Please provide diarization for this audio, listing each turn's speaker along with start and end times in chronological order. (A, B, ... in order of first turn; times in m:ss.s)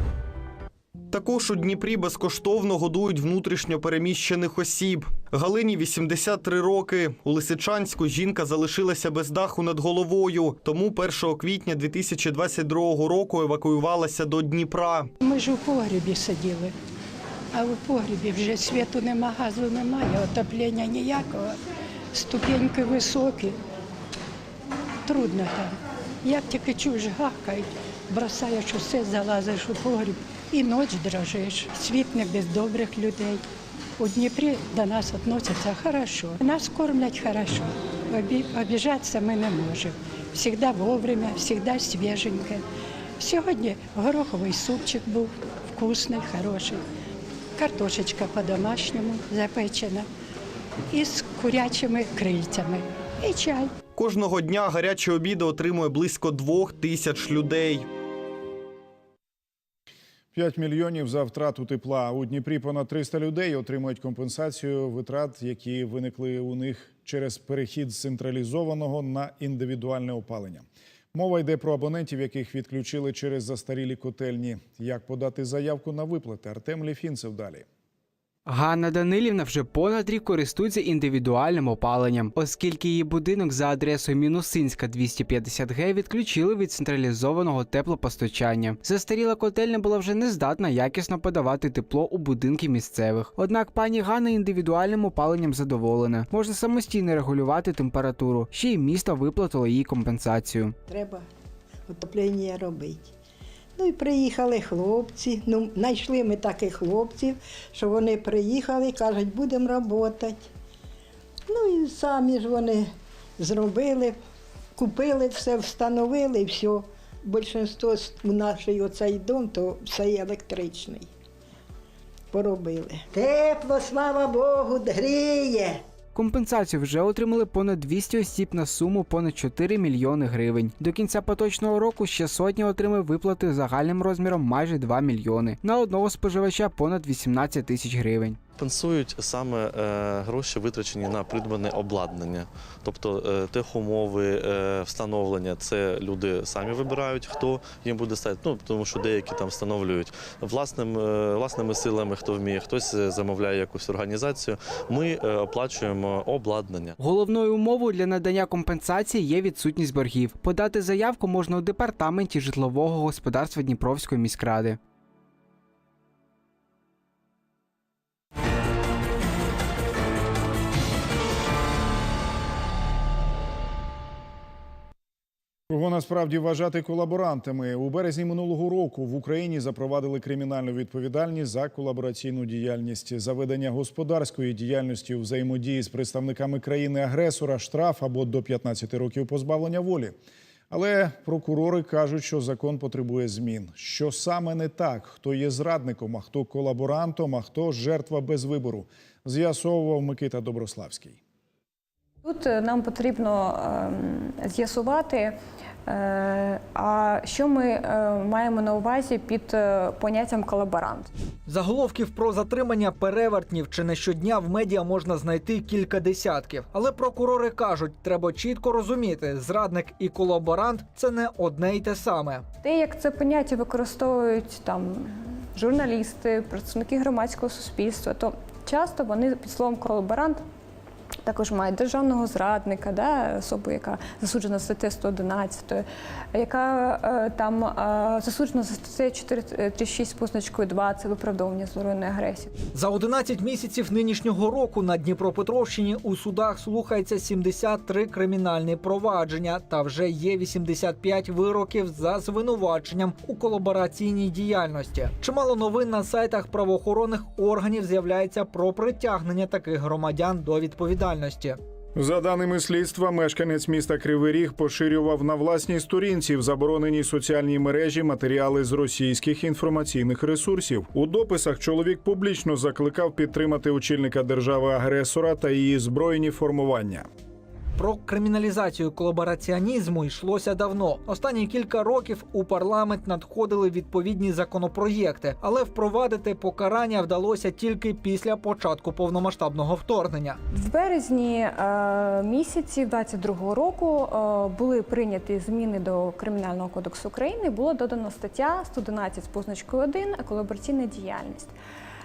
0:01.1-0:15.1 A
0:15.2-0:16.7 B
0:17.5-0:21.6 B
0:22.1-0:23.6 B
0:25.0-0:33.4 B
0:34.0-0:42.6 B
0:43.2-0:46.8 B
0:47.6-0:50.1 B
0:50.9-0:53.7 B
0:54.0-0:57.9 A
1:00.3-1:17.6 C
1:18.4-1:40.7 D
1:40.9-1:41.2 E
1:41.9-1:43.1 E
1:43.8-1:50.5 E
1:51.5-1:54.2 E
1:54.8-2:01.1 E
2:02.3-2:05.8 E
2:06.1-2:18.4 D
2:18.6-2:36.9 F
2:37.0-2:44.8 D
2:55.7-3:10.1 C
3:10.7-3:21.2 C
3:22.2-3:31.1 G
3:31.5-3:42.4 H
3:42.6-3:50.4 G
3:51.2-4:02.5 G
4:02.7-4:21.6 H
4:21.9-4:37.0 C
4:37.8-4:50.4 H
4:50.5-5:01.5 G